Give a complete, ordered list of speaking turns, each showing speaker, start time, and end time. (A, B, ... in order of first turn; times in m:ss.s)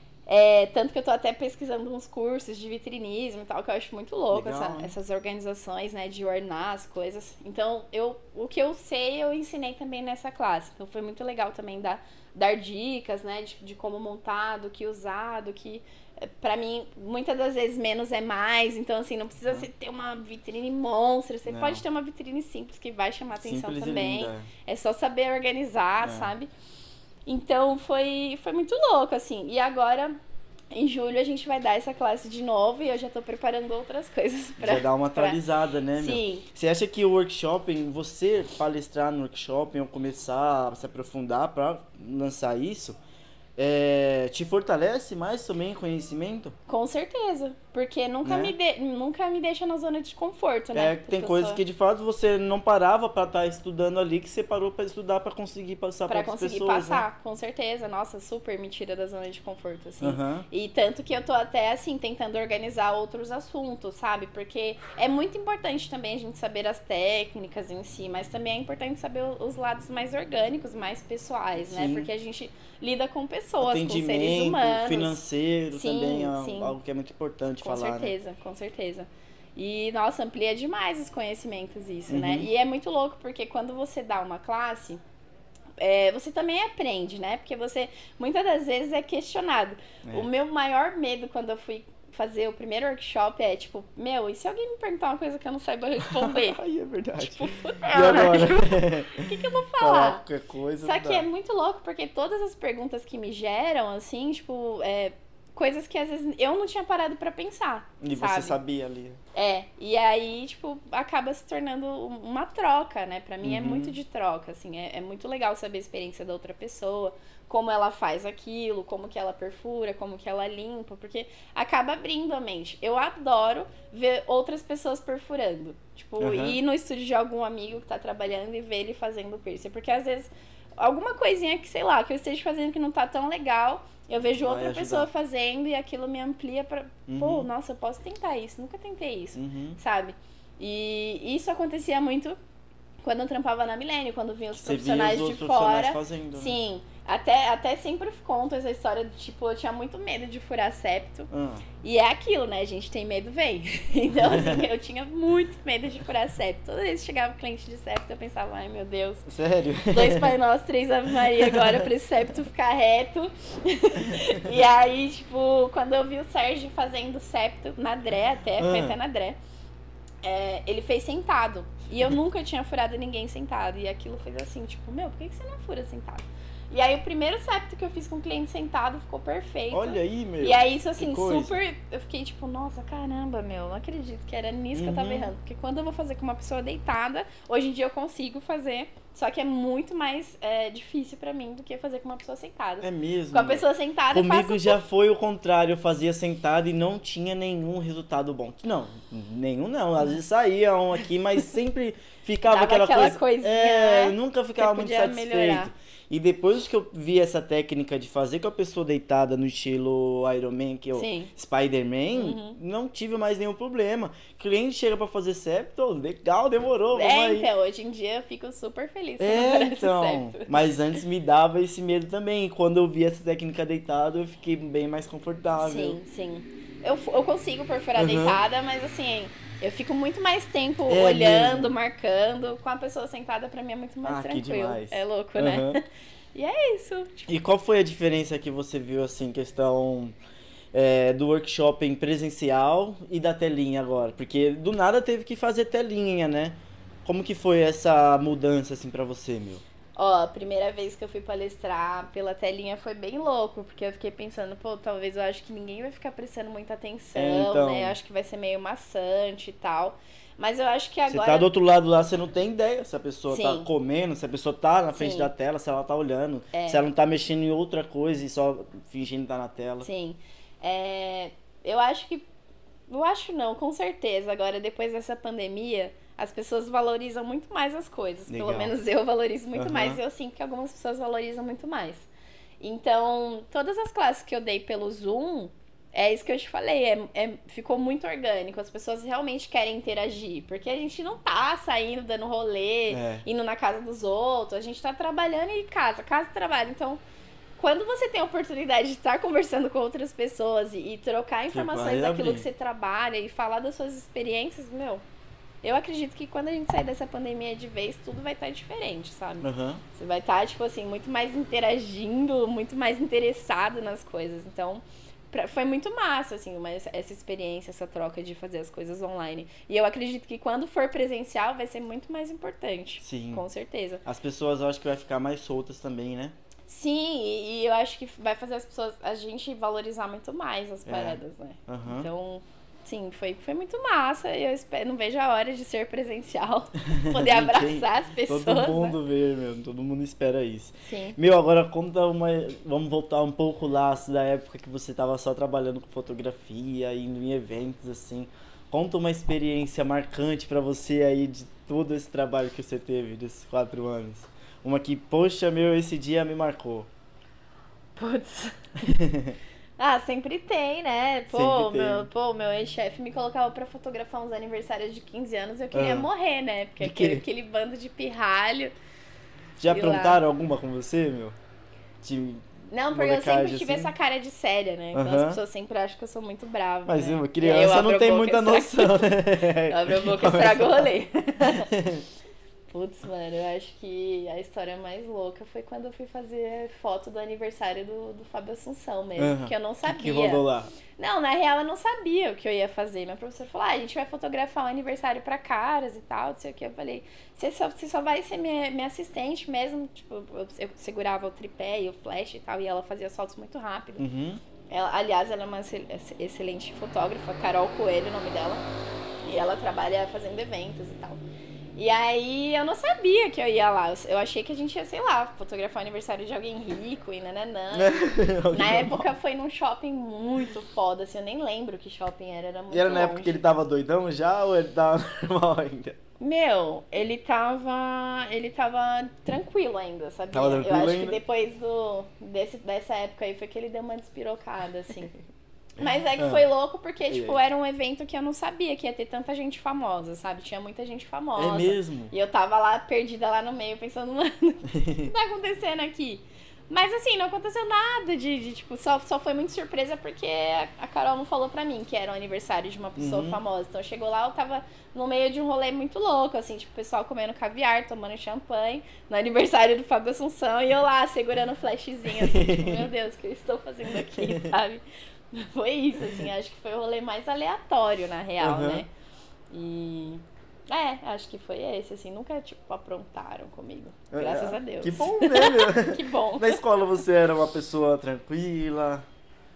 0:00.3-0:26.5 A
0:04.3-0:04.9 B
0:21.4-0:21.8 B
0:23.4-0:24.5 B
0:26.0-0:26.3 B
0:27.3-0:30.2 A
0:30.7-0:35.4 A
0:34.6-0:43.0 B
0:36.0-0:36.4 A
0:43.6-0:46.5 B
0:46.7-0:51.6 A
0:48.2-0:48.5 B
0:50.7-0:57.0 B
0:56.1-1:15.2 A
1:00.0-1:00.4 B
1:11.6-1:12.1 B
1:13.6-1:18.1 B
1:15.7-1:16.7 A
1:17.6-1:25.0 A
1:22.1-1:22.5 B
1:25.8-1:36.6 A
1:30.0-1:30.3 B
1:36.0-1:41.2 B
1:37.2-1:40.2 A
1:40.8-1:48.6 A
1:48.0-1:49.2 B
1:49.3-2:22.4 A
1:53.4-1:54.0 B
2:06.2-2:06.6 B
2:14.4-2:15.1 B
2:17.1-2:17.5 B
2:19.4-2:19.8 B
2:23.0-2:31.3 A
2:24.5-2:26.6 B
2:31.3-2:31.6 B
2:31.8-2:39.3 A
2:34.2-2:34.6 B
2:39.3-2:40.3 B
2:39.9-2:49.4 A
2:41.3-2:41.8 B
2:44.1-2:44.3 B
2:48.6-2:48.9 B
2:50.2-3:14.8 A
2:59.7-3:01.6 B
3:04.7-3:05.3 B
3:12.8-3:37.5 B
3:22.5-3:25.7 A
3:30.9-3:31.3 A
3:32.1-3:32.6 A
3:36.9-3:40.7 A
3:39.2-3:46.0 B
3:45.6-3:55.8 A
3:48.0-3:48.4 B
3:50.9-3:51.7 B
3:54.0-3:55.8 B
3:56.3-3:57.3 A
3:57.3-4:00.1 B
4:00.7-4:09.6 B
4:10.0-4:21.5 A
4:17.1-4:18.0 B
4:21.1-4:29.9 B
4:23.3-4:23.7 A
4:24.9-4:25.3 A
4:26.5-4:26.8 A
4:29.8-4:32.2 A
4:32.9-4:42.1 A
4:38.3-4:38.7 B
4:39.5-4:40.0 B
4:42.6-4:57.0 A
4:52.9-4:53.2 B
4:57.6-5:05.0 A
5:01.5-5:02.4 B
5:05.6-5:24.0 A
5:09.4-5:09.8 B
5:23.0-5:23.4 B
5:24.0-5:26.4 B
5:26.7-5:39.0 A
5:30.8-5:32.1 B
5:36.8-5:56.9 B
5:40.8-5:41.2 A
5:58.0-5:58.7 A
5:58.8-5:59.4 B
5:59.8-6:08.7 A
6:01.3-6:02.1 B
6:05.7-6:06.1 B
6:06.8-6:07.2 B
6:09.6-6:11.4 B
6:09.6-6:10.2 A
6:12.0-6:13.9 B
6:12.7-6:21.7 A
6:14.9-6:15.4 B
6:16.8-6:20.9 B
6:21.7-6:22.0 B
6:22.7-6:30.4 A
6:29.2-6:30.7 B
6:31.0-6:44.0 A
6:44.0-6:44.4 B
6:44.7-6:48.6 A
6:49.2-6:51.2 A
6:51.8-6:58.0 A
6:57.7-6:59.1 B
6:58.5-7:03.4 A
7:02.7-7:06.0 B
7:06.2-7:15.1 A
7:10.3-7:11.2 B
7:15.8-7:48.9 A
7:16.2-7:16.4 B
7:17.1-7:17.4 B
7:21.4-7:22.1 B
7:24.7-7:25.1 B
7:33.0-7:33.4 B
7:42.1-7:42.9 B
7:43.9-7:44.5 B
7:48.4-7:48.8 B
7:49.5-7:56.6 A
7:54.1-7:59.0 B